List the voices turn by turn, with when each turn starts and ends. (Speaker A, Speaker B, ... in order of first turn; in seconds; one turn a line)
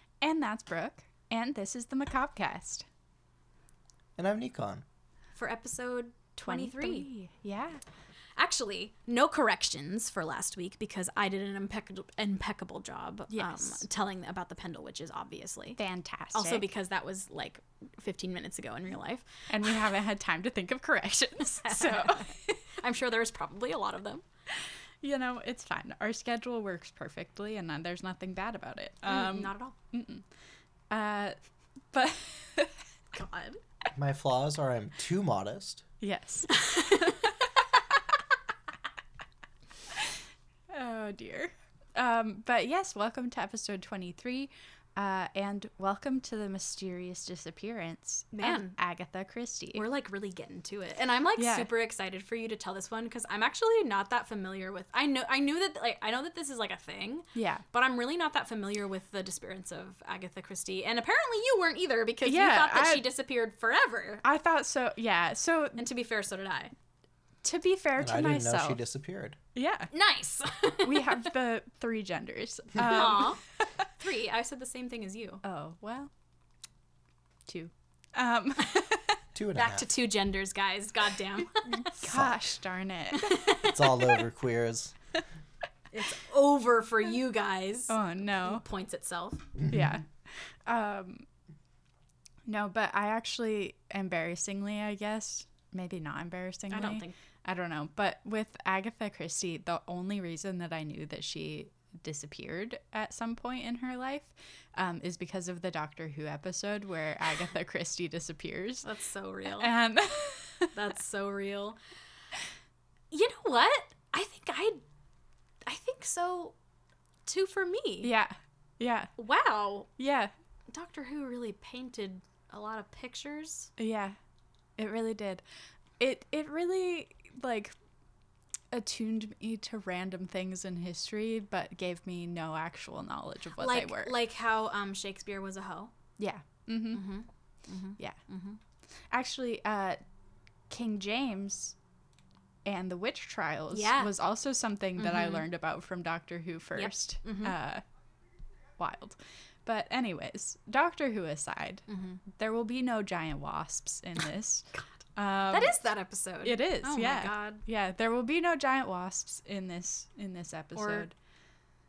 Speaker A: 0.2-2.9
Speaker B: 4.2-4.8
Speaker C: 5.3-7.1
Speaker A: 6.4-7.8
Speaker C: 8.3-15.8
Speaker A: 13.3-13.8
Speaker A: 15.8-16.7
Speaker C: 16.3-19.8
Speaker A: 19.5-22.5
Speaker C: 21.6-24.2
Speaker A: 24.6-30.2
Speaker C: 29.1-29.7
Speaker A: 30.9-31.3
Speaker A: 31.9-32.7
Speaker C: 33.1-33.6
Speaker B: 33.9-35.8
Speaker A: 36.0-37.1
Speaker C: 36.5-37.3
Speaker A: 40.7-49.8
Speaker C: 48.3-48.8
Speaker C: 49.7-64.2
Speaker A: 51.4-51.7
Speaker A: 57.3-57.6
Speaker A: 62.2-63.0
Speaker A: 64.2-65.8
Speaker C: 65.8-66.7
Speaker A: 67.4-68.8
Speaker B: 68.0-69.4
Speaker A: 69.5-69.9
Speaker C: 69.9-71.2
Speaker A: 70.8-73.4
Speaker C: 72.8-73.4
Speaker C: 73.9-75.4
Speaker A: 75.4-76.1
Speaker A: 77.5-79.2
Speaker B: 79.3-79.9
Speaker C: 79.5-81.9
Speaker A: 81.7-83.5
Speaker B: 82.0-82.4
Speaker C: 83.1-84.2
Speaker B: 83.6-84.9
Speaker C: 85.9-89.5
Speaker A: 87.9-88.6
Speaker A: 89.7-91.3
Speaker A: 92.5-108.9
Speaker C: 96.7-97.1
Speaker C: 108.8-109.7
Speaker A: 109.6-110.7
Speaker C: 110.7-111.8
Speaker C: 113.1-114.8
Speaker C: 115.7-116.5
Speaker C: 117.2-118.1
Speaker A: 118.0-119.1
Speaker C: 119.2-119.9
Speaker A: 120.0-120.3
Speaker C: 120.7-123.7
Speaker A: 123.8-124.2
Speaker A: 124.8-125.4
Speaker A: 126.0-127.7
Speaker A: 128.7-134.1
Speaker C: 133.6-135.9
Speaker A: 136.2-137.1
Speaker C: 136.9-138.6
Speaker A: 139.1-140.0
Speaker A: 140.7-141.7
Speaker A: 142.7-147.8
Speaker C: 143.7-144.1
Speaker C: 145.0-145.5
Speaker C: 146.8-147.6
Speaker A: 148.8-155.8
Speaker C: 151.9-152.2
Speaker C: 155.5-157.6
Speaker A: 156.4-161.1
Speaker C: 160.8-161.1